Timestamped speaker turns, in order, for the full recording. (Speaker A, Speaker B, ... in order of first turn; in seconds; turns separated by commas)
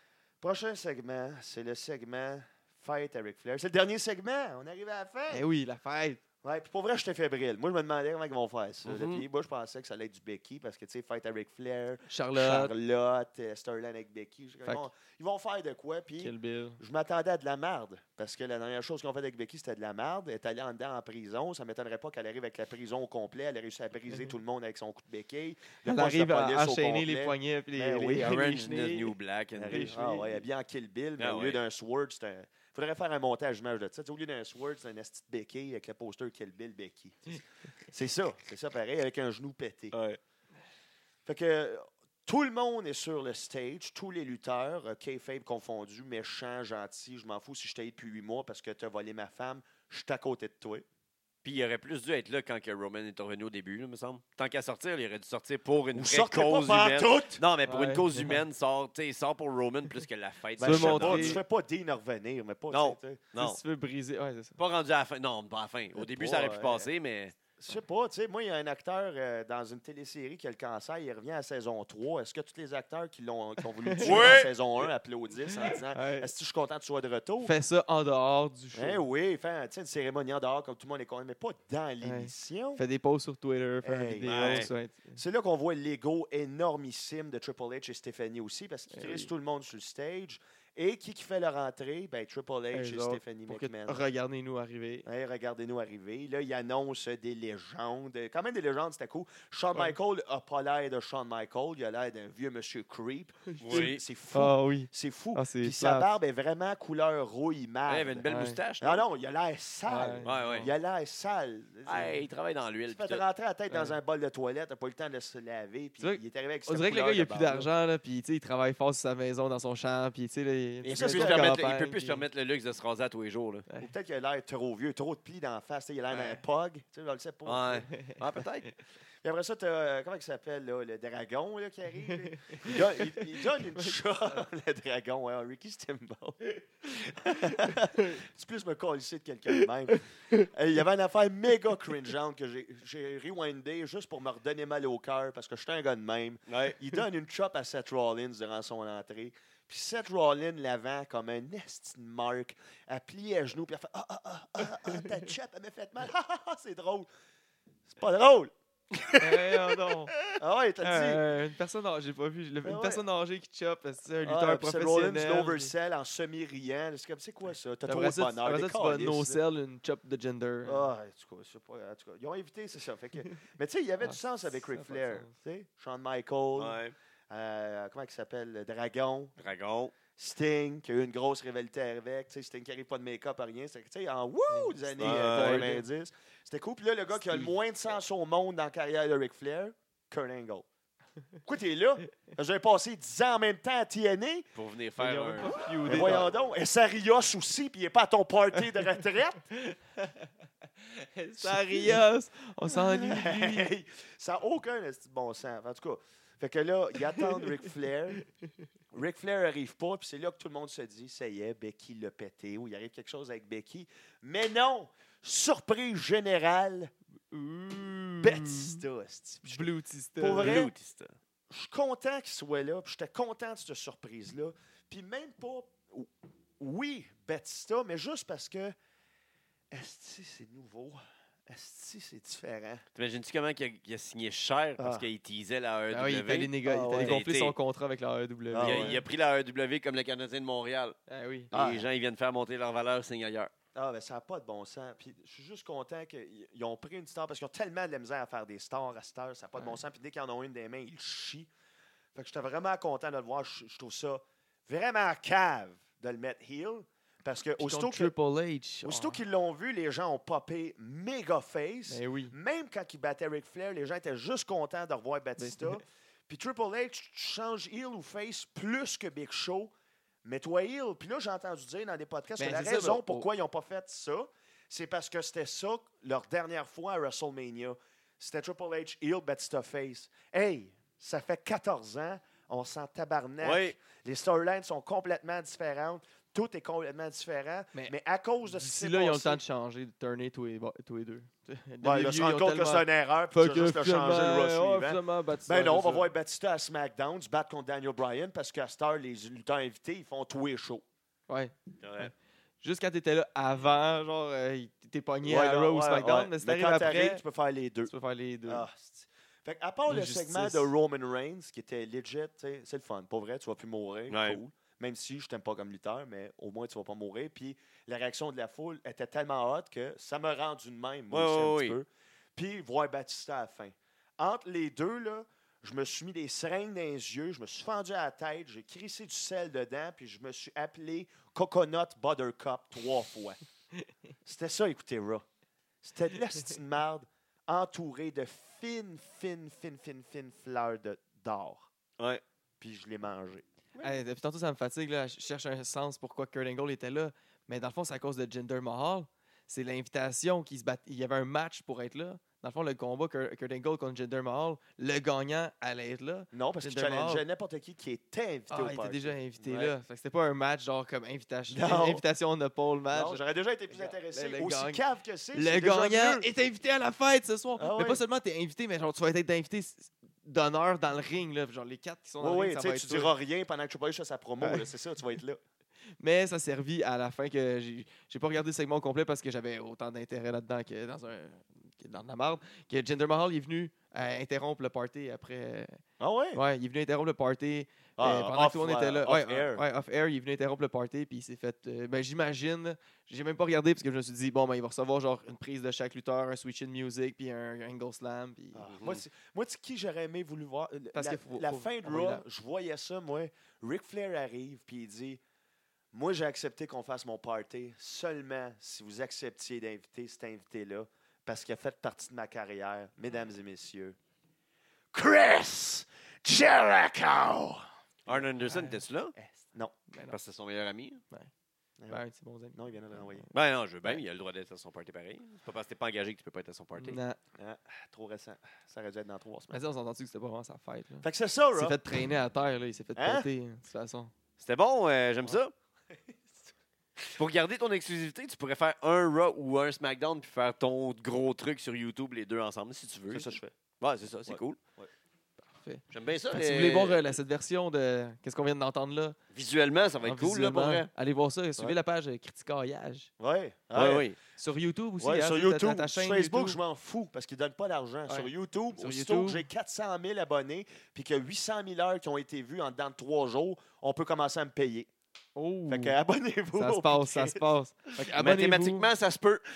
Speaker A: 0.4-5.4, Speaker B: 5.3-6.2, Speaker A: 6.4-28.4, Speaker C: 8.8-9.2, Speaker B: 12.1-12.7, Speaker B: 16.2-16.8, Speaker B: 25.9-29.1, Speaker C: 28.1-30.1, Speaker A: 29.6-40.0, Speaker B: 29.7-30.4, Speaker C: 31.2-31.6, Speaker C: 39.9-40.2, Speaker A: 41.3-50.9, Speaker C: 51.4-61.4, Speaker A: 56.0-57.4, Speaker B: 57.7-58.4, Speaker B: 60.6-61.4, Speaker A: 60.6-63.3, Speaker C: 62.7-63.6, Speaker B: 63.4-64.6, Speaker C: 64.6-67.4, Speaker A: 66.0-66.9, Speaker A: 67.6-77.5, Speaker B: 73.8-74.4, Speaker C: 74.0-74.5, Speaker B: 75.5-76.3, Speaker B: 77.4-79.0, Speaker A: 78.8-82.8, Speaker B: 82.0-85.2, Speaker A: 83.8-94.0, Speaker C: 84.2-84.7, Speaker B: 88.9-89.3, Speaker B: 92.7-95.1, Speaker A: 95.0-108.3, Speaker B: 99.7-100.0, Speaker C: 103.6-104.0, Speaker B: 103.7-106.1, Speaker C: 107.9-109.0, Speaker B: 108.2-108.6, Speaker A: 108.8-112.2, Speaker B: 109.9-110.7, Speaker C: 110.2-110.7, Speaker C: 111.8-113.2, Speaker A: 112.9-117.7, Speaker B: 113.7-114.0, Speaker B: 116.0-122.2, Speaker C: 120.8-123.7, Speaker A: 120.9-121.6, Speaker A: 123.8-127.9, Speaker C: 126.1-126.4, Speaker C: 127.5-128.7, Speaker A: 129.2-157.1, Speaker B: 133.4-134.0, Speaker C: 146.5-146.8, Speaker A: 157.9-161.2, Speaker B: 159.2-160.2, Speaker B: 160.8-165.7, Speaker A: 162.7-163.0, Speaker A: 164.2-169.4, Speaker B: 167.9-170.9, Speaker A: 170.7-176.8, Speaker B: 174.0-175.3, Speaker C: 176.6-176.9, Speaker A: 177.3-179.3, Speaker C: 179.4-179.9, Speaker A: 180.1-190.7, Speaker B: 184.5-185.8, Speaker C: 185.0-185.8, Speaker B: 187.2-187.6, Speaker A: 191.4-194.5, Speaker C: 194.6-196.2, Speaker B: 195.0-196.3, Speaker A: 195.8-199.5, Speaker B: 199.6-200.3, Speaker B: 200.9-203.7, Speaker A: 201.4-202.0, Speaker A: 202.7-208.2, Speaker B: 207.2-207.4, Speaker A: 208.9-216.9, Speaker B: 217.3-218.8, Speaker A: 218.2-220.7, Speaker B: 219.4-220.7, Speaker C: 220.4-221.1, Speaker A: 221.5-228.8, Speaker A: 229.7-232.8, Speaker C: 232.9-237.6, Speaker A: 234.8-235.1, Speaker B: 235.9-239.0, Speaker A: 236.6-237.3, Speaker A: 238.5-239.0, Speaker C: 238.6-241.0, Speaker B: 241.1-241.5, Speaker C: 241.5-243.5, Speaker A: 241.5-241.9, Speaker A: 243.7-251.5, Speaker A: 252.2-258.1, Speaker B: 257.6-259.2, Speaker A: 258.8-269.7, Speaker B: 261.9-262.4, Speaker B: 265.4-265.8, Speaker A: 270.2-289.4, Speaker B: 272.4-273.3, Speaker C: 283.4-283.8, Speaker B: 288.4-296.1, Speaker A: 291.8-300.8, Speaker B: 301.3-307.2, Speaker C: 301.8-302.1, Speaker A: 305.2-307.9, Speaker B: 307.9-308.7, Speaker A: 308.5-333.4, Speaker B: 309.9-310.7, Speaker C: 314.1-314.4, Speaker C: 321.1-321.8, Speaker A: 334.2-335.2, Speaker A: 335.8-341.7, Speaker A: 342.6-343.4, Speaker B: 343.8-357.2, Speaker A: 356.3-359.8, Speaker B: 358.5-364.8, Speaker A: 361.5-362.0, Speaker A: 362.9-366.3, Speaker B: 365.3-373.1, Speaker A: 367.6-368.0, Speaker A: 372.2-375.4, Speaker B: 374.4-374.7, Speaker B: 376.0-385.8, Speaker A: 386.0-386.4, Speaker B: 386.3-398.7, Speaker A: 388.0-389.6, Speaker A: 398.6-405.2, Speaker C: 398.6-399.0, Speaker B: 400.9-402.2, Speaker A: 405.9-414.0, Speaker A: 414.9-418.3, Speaker C: 418.1-419.1, Speaker B: 418.5-419.3, Speaker B: 419.9-420.2, Speaker C: 420.1-421.0, Speaker B: 421.9-423.3, Speaker A: 422.6-423.3, Speaker C: 423.3-427.0, Speaker B: 426.8-427.2, Speaker A: 427.4-429.6, Speaker B: 429.5-434.1, Speaker A: 431.0-431.8, Speaker A: 433.0-433.3, Speaker C: 434.4-435.5, Speaker C: 437.1-444.6, Speaker A: 443.1-443.5, Speaker A: 444.3-444.9, Speaker B: 445.4-449.2, Speaker C: 445.9-447.1, Speaker C: 449.3-450.9, Speaker B: 450.0-453.1, Speaker A: 453.2-454.1, Speaker C: 453.7-454.2, Speaker B: 454.4-456.6, Speaker A: 455.0-464.9, Speaker B: 458.1-459.5, Speaker B: 465.4-466.0, Speaker A: 465.7-467.4, Speaker B: 466.5-468.9, Speaker C: 468.1-469.4